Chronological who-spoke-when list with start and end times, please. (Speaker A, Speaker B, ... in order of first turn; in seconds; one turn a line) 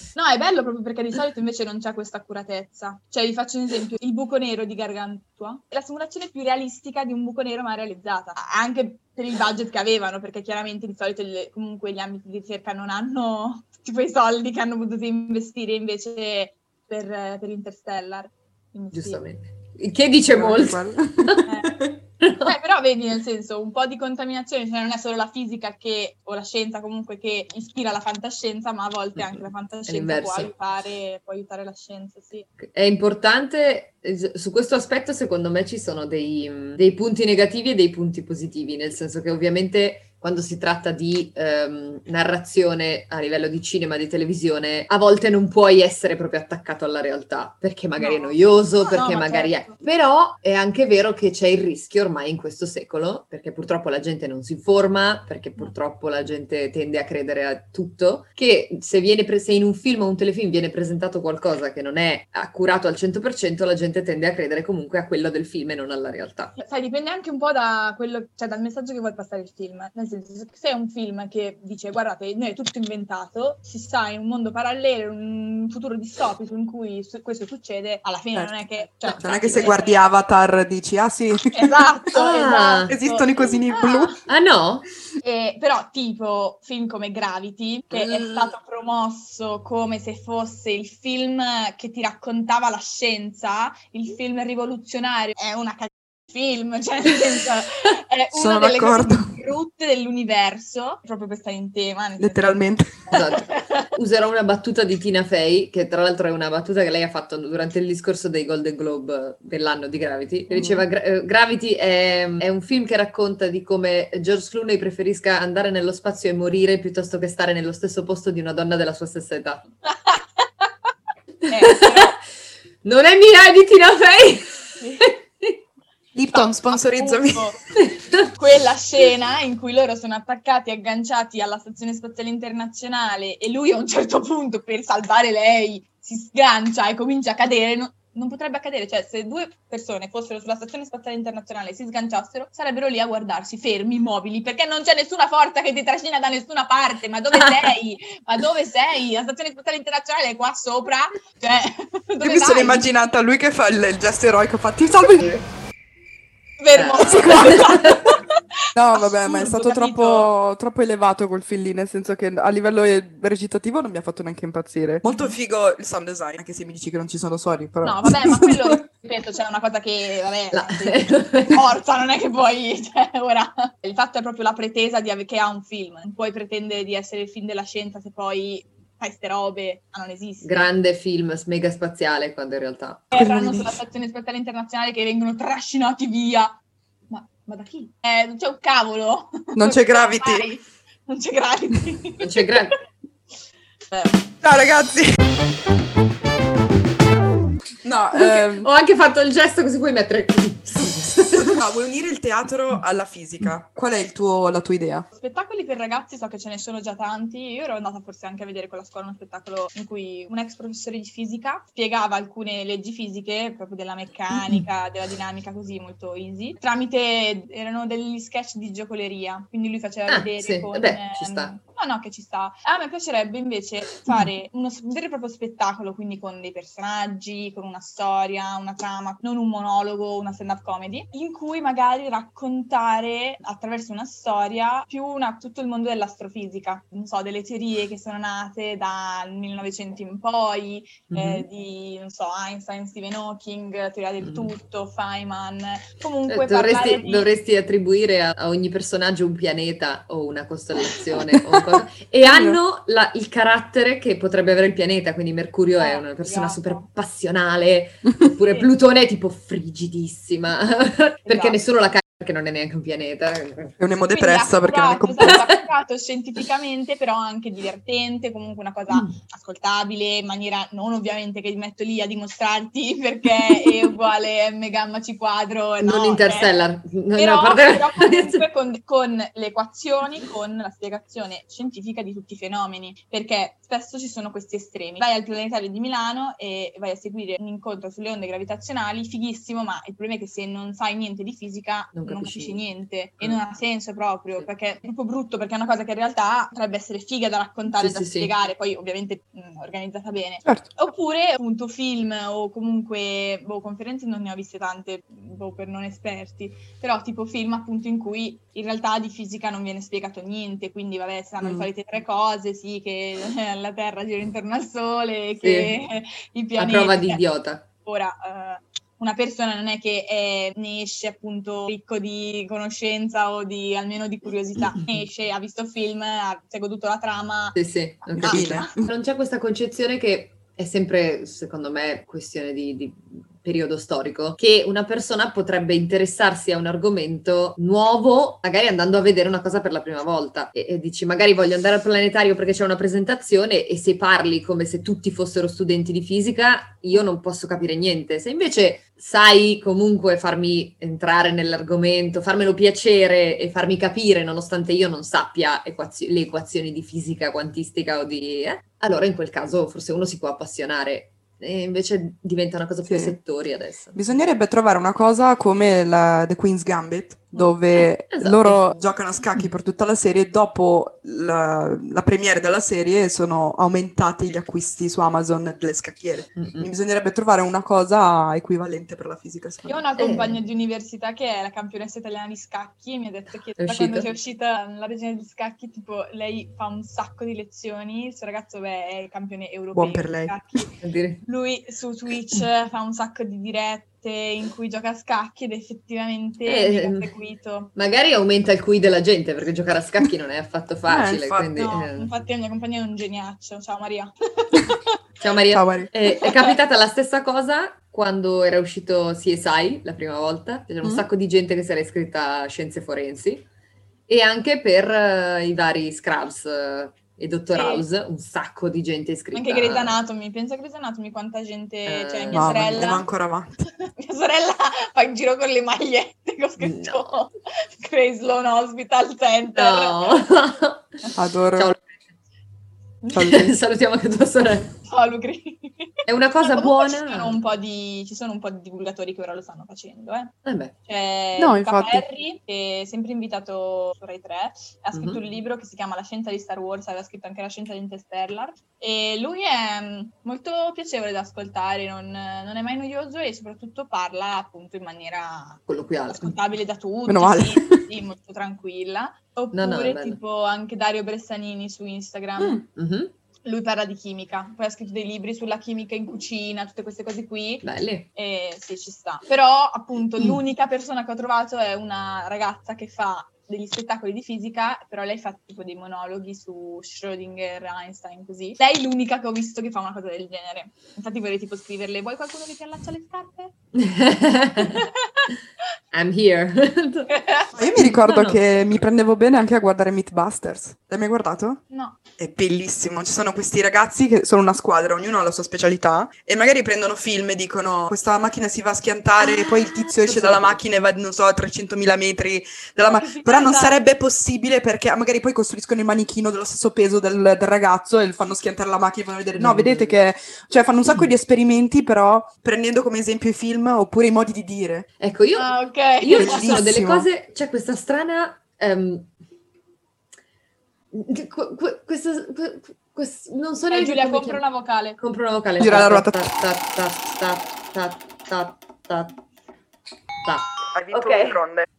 Speaker A: 0.1-19.2
Speaker B: 18.9-21.4
Speaker C: 20.3-21.9
Speaker A: 21.4-21.8
Speaker B: 22.2-22.6
Speaker A: 22.4-32.5
Speaker B: 29.2-30.5
Speaker B: 32.6-66.5
Speaker A: 48.0-49.8
Speaker A: 66.5-80.0
Speaker B: 79.0-79.7
Speaker C: 79.1-81.7
Speaker A: 81.5-84.2
Speaker B: 82.1-82.9
Speaker C: 82.9-84.1
Speaker B: 84.3-84.9
Speaker A: 85.2-103.9
Speaker C: 87.9-88.5
Speaker C: 98.3-99.3
Speaker C: 102.2-103.1
Speaker B: 103.1-119.6
Speaker A: 119.9-120.7
Speaker B: 121.4-122.1
Speaker A: 121.5-122.2
Speaker B: 122.8-125.6
Speaker A: 124.8-125.1
Speaker C: 126.1-127.5
Speaker A: 126.3-127.6
Speaker B: 127.8-128.3
Speaker A: 128.3-152.9
Speaker B: 147.4-147.7
Speaker C: 152.2-155.4
Speaker A: 156.6-158.4
Speaker B: 156.7-158.0
Speaker C: 157.0-157.8
Speaker C: 158.7-168.8
Speaker A: 158.9-160.3
Speaker A: 165.1-165.3
Speaker A: 167.8-180.5
Speaker B: 170.5-171.7
Speaker B: 180.4-183.3
Speaker A: 183.1-186.6
Speaker C: 183.1-183.8
Speaker A: 187.1-192.7
Speaker C: 189.6-190.4
Speaker B: 192.2-192.7
Speaker A: 193.9-194.2
Speaker C: 194.4-195.1
Speaker C: 197.8-198.7
Speaker B: 198.1-201.6
Speaker C: 201.4-205.0
Speaker A: 205.1-247.3
Speaker B: 220.1-221.5
Speaker B: 241.1-241.4
Speaker B: 244.2-244.5
Speaker B: 246.3-263.8
Speaker C: 252.2-252.6
Speaker A: 255.8-256.9
Speaker A: 261.2-261.6
Speaker C: 263.8-265.4
Speaker A: 264.1-276.5
Speaker B: 265.2-265.6
Speaker B: 275.8-278.4
Speaker A: 277.1-317.2
Speaker B: 291.9-292.6
Speaker B: 297.8-298.3
Speaker B: 315.4-315.7
Speaker B: 316.6-317.6
Speaker A: 317.8-328.7
Speaker B: 327.5-363.9
Speaker C: 328.2-328.9
Speaker C: 362.9-363.2
Speaker C: 363.9-379.8
Speaker B: 368.1-368.8
Speaker B: 376.4-376.7
Speaker A: 379.7-397.7
Speaker B: 380.0-380.4
Speaker B: 383.6-384.1
Speaker C: 389.7-390.6
Speaker B: 390.8-391.2
Speaker B: 396.4-397.1
Speaker B: 397.8-402.1
Speaker C: 400.9-401.5
Speaker A: 401.5-404.9
Speaker B: 405.2-413.4
Speaker C: 405.5-405.9
Speaker A: 406.2-406.5
Speaker B: 414.1-420.0
Speaker A: 417.5-417.9
Speaker A: 419.3-423.1
Speaker B: 421.9-423.0
Speaker C: 422.3-423.6
Speaker A: 423.8-430.3
Speaker B: 426.6-427.1
Speaker B: 429.5-430.9
Speaker C: 431.1-431.7
Speaker B: 431.5-431.8
Speaker A: 433.0-433.3
Speaker C: 433.1-433.5
Speaker B: 433.2-434.8
Speaker A: 434.9-462.6
Speaker B: 436.1-437.4
Speaker B: 440.4-440.7
Speaker C: 441.4-442.0
Speaker B: 444.9-445.2
Speaker B: 455.7-456.4
Speaker C: 457.1-457.8
Speaker B: 459.5-460.2
Speaker B: 462.7-463.1
Speaker A: 463.4-483.5
Speaker B: 467.6-468.1
Speaker B: 483.7-484.9
Speaker A: 484.6-485.3
Speaker B: 485.9-487.1
Speaker A: 487.1-487.5
Speaker C: 487.5-491.6
Speaker B: 487.7-488.4
Speaker A: 491.7-492.0
Speaker C: 492.2-514.9
Speaker B: 500.0-500.6
Speaker A: 502.8-503.8
Speaker B: 509.4-509.9
Speaker B: 515.0-519.1
Speaker A: 515.3-516.6
Speaker C: 516.1-517.1
Speaker B: 520.9-524.4
Speaker A: 523.7-525.0
Speaker B: 525.0-529.1
Speaker C: 525.6-526.3
Speaker B: 530.2-531.4
Speaker C: 530.7-531.7